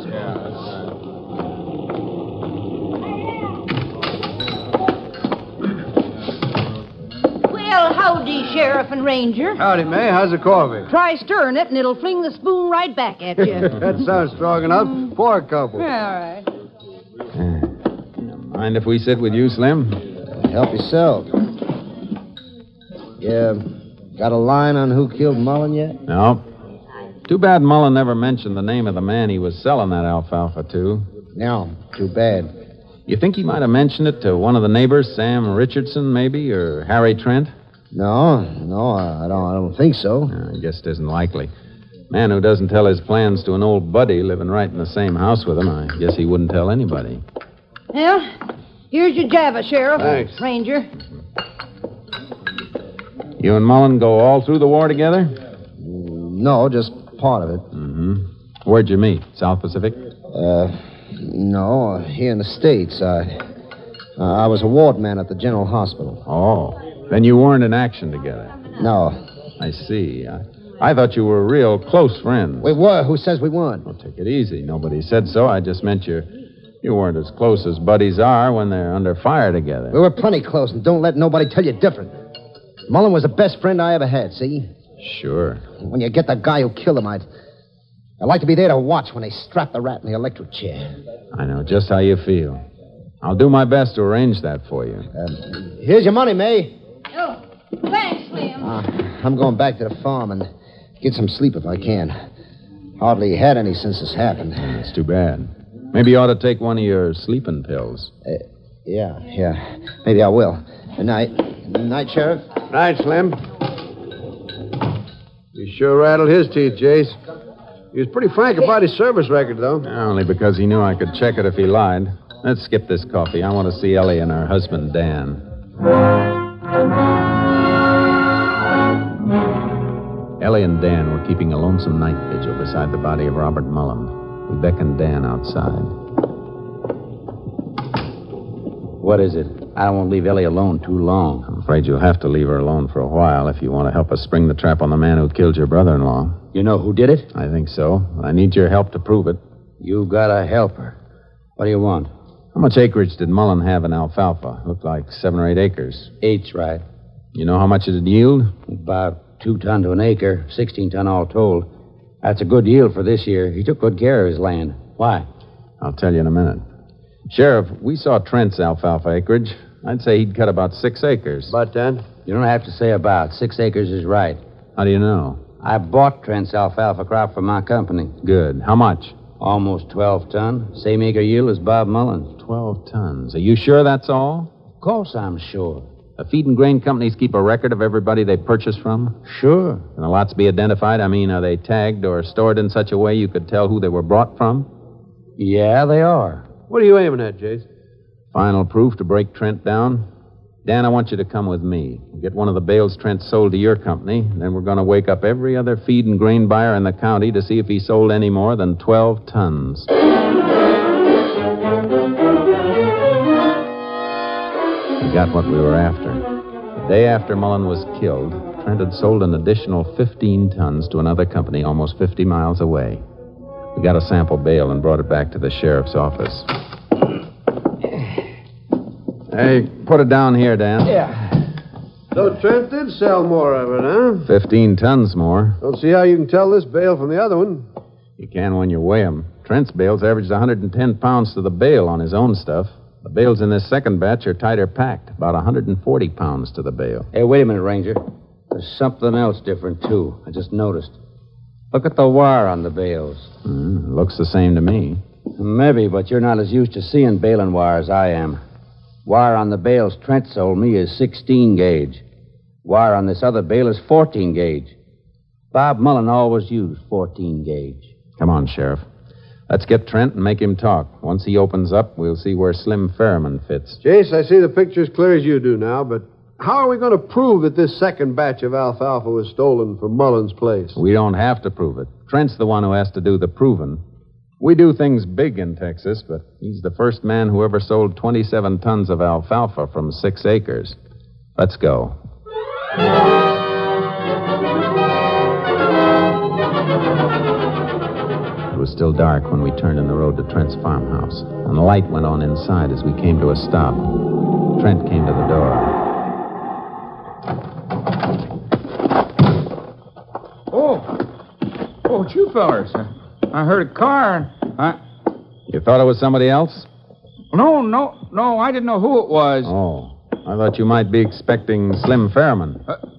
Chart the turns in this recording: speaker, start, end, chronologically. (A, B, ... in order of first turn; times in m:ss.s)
0:07.4-0:09.6 A
0:09.6-0:10.9 B
0:10.9-0:13.7 A
0:13.6-0:15.9 B
0:15.8-0:16.4 A
0:17.4-0:20.0 C
0:20.3-0:21.3 D
0:23.2-0:26.0 D
0:26.1-0:26.4 C
0:27.3-0:31.1 C
0:31.3-0:32.5 D
0:33.1-0:37.5 C
0:37.9-0:40.3 D
0:40.3-0:41.5 C
0:42.1-0:47.2 C
0:47.9-0:48.3 A
0:48.9-0:50.9 A
0:50.0-0:50.4 B
0:53.4-0:55.3 C
0:55.8-0:57.6 D
0:57.7-1:00.0 C
1:00.3-1:03.4 D
1:04.2-1:06.2 D
1:06.2-1:08.5 C
1:08.8-1:09.2 D
1:09.6-1:12.7 C
1:12.6-1:13.8 D
1:13.8-1:16.3 C
1:16.8-1:20.0 C
1:19.9-1:22.2 D
1:22.9-1:24.7 D
1:25.0-1:25.6 C
1:25.8-1:27.2 D
1:28.2-1:30.9 D
1:31.3-1:32.6 C
1:33.2-1:35.1 C
1:35.1-1:36.7 D
1:37.1-1:38.6 A
1:38.6-1:40.5 D
1:41.0-1:42.1 D
1:43.0-1:44.8 D
1:44.6-1:48.1 C
1:48.2-1:52.4 D
1:52.7-1:53.4 B
1:55.5-1:57.2 B
1:57.9-1:59.8 B
1:59.8-2:05.4 C
2:10.4-2:15.9 C
2:19.0-2:21.4 E
2:21.5-2:26.4 C
2:26.5-2:27.3 E
2:27.3-2:29.4 C
2:29.8-2:31.0 E
2:31.6-2:32.1 E
2:32.5-2:36.1 C
2:36.2-2:36.8 E
2:37.3-2:38.5 C
2:38.7-2:41.7 E
2:42.2-2:45.3 E
2:45.8-2:46.6 C
2:47.3-2:51.5 C
2:51.5-2:52.1 B
2:52.2-2:54.4 E
2:54.8-2:55.4 C
2:55.6-2:58.2 E
2:58.2-2:59.2 C
2:59.4-3:02.3 E
3:02.4-3:04.5 C
3:04.8-3:05.9 E
3:06.2-3:09.2 C
3:09.2-3:09.8 E
3:10.0-3:14.7 C
3:15.4-3:16.5 E
3:16.7-3:17.6 B
3:18.3-3:20.1 C
3:20.6-3:29.9 C
3:35.0-3:43.0 C
3:43.7-3:46.5 C
3:49.3-3:51.3 C
3:52.1-3:54.3 B
3:54.2-3:55.6 C
3:55.6-3:57.6 B
3:58.2-4:07.1 C
4:07.1-4:11.0 E
4:11.7-4:13.3 E
4:13.4-4:15.0 C
4:15.3-4:18.4 E
4:19.0-4:22.0 E
4:22.6-4:24.7 E
4:25.5-4:27.9 E
4:28.2-4:28.8 C
4:29.5-4:33.8 C
4:33.8-4:40.8 B
4:40.7-4:43.8 C
4:44.4-4:50.8 C
4:51.4-4:51.9 C
4:58.5-5:03.9 C
5:04.6-5:05.8 C
5:10.5-5:11.0 F
5:11.8-5:14.8 F
5:15.5-5:16.7 C
5:17.3-5:19.5 F
5:19.4-5:22.6 C